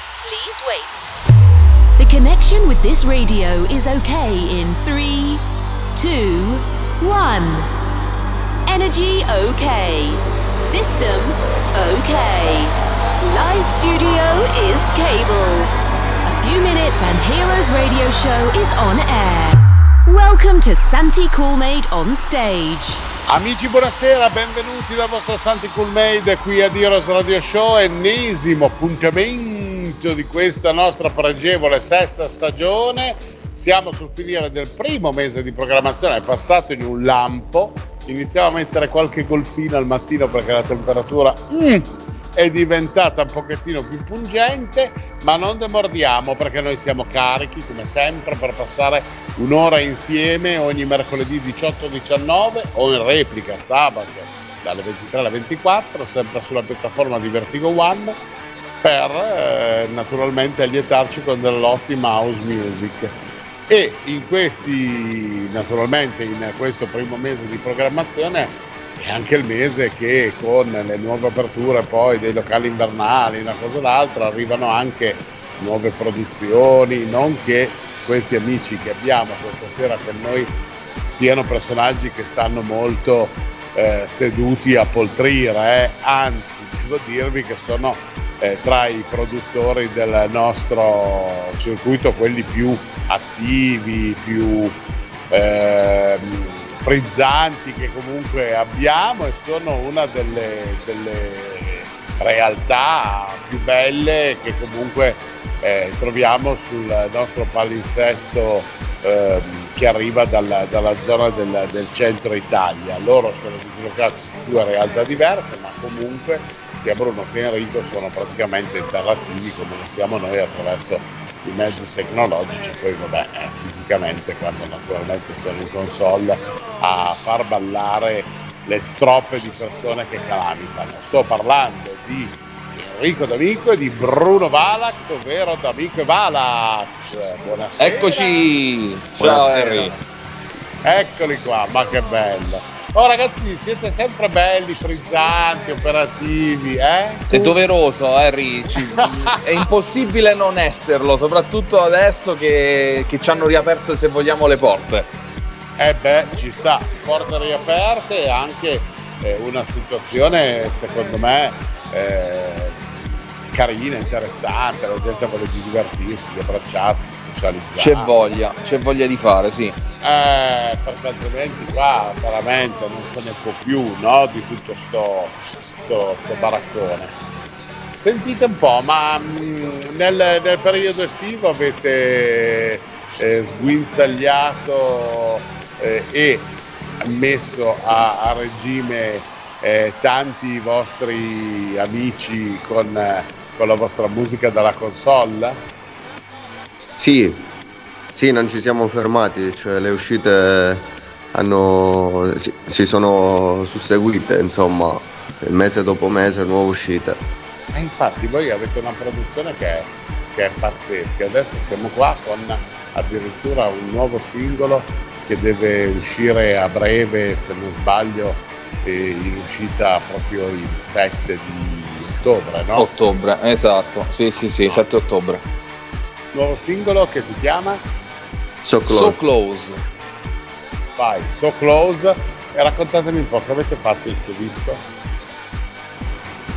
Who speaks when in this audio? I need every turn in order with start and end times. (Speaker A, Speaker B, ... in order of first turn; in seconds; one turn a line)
Speaker A: 0.2-1.1
Speaker A: 2.0-5.4
Speaker A: 6.0-7.7
Speaker A: 8.7-15.7
Speaker A: 16.2-23.0
Speaker B: 23.3-58.2
Speaker B: 58.8-63.1
Speaker B: 63.7-80.6
Speaker B: 81.1-94.8
Speaker B: 95.3-138.5
Speaker C: 137.8-139.9
Speaker B: 139.2-140.0
Speaker B: 140.8-147.6
Speaker C: 147.3-155.1
Speaker B: 155.8-162.8
Speaker B: 163.5-168.1
Speaker C: 167.8-169.8
Speaker B: 170.0-177.2
Speaker B: 178.0-195.6
Speaker D: 197.0-197.5
Speaker D: 198.1-207.2
Speaker B: 207.7-222.9
Speaker C: 222.8-225.4
Speaker B: 226.3-227.8
Speaker D: 228.6-229.2
Speaker C: 228.9-229.8
Speaker B: 231.0-234.8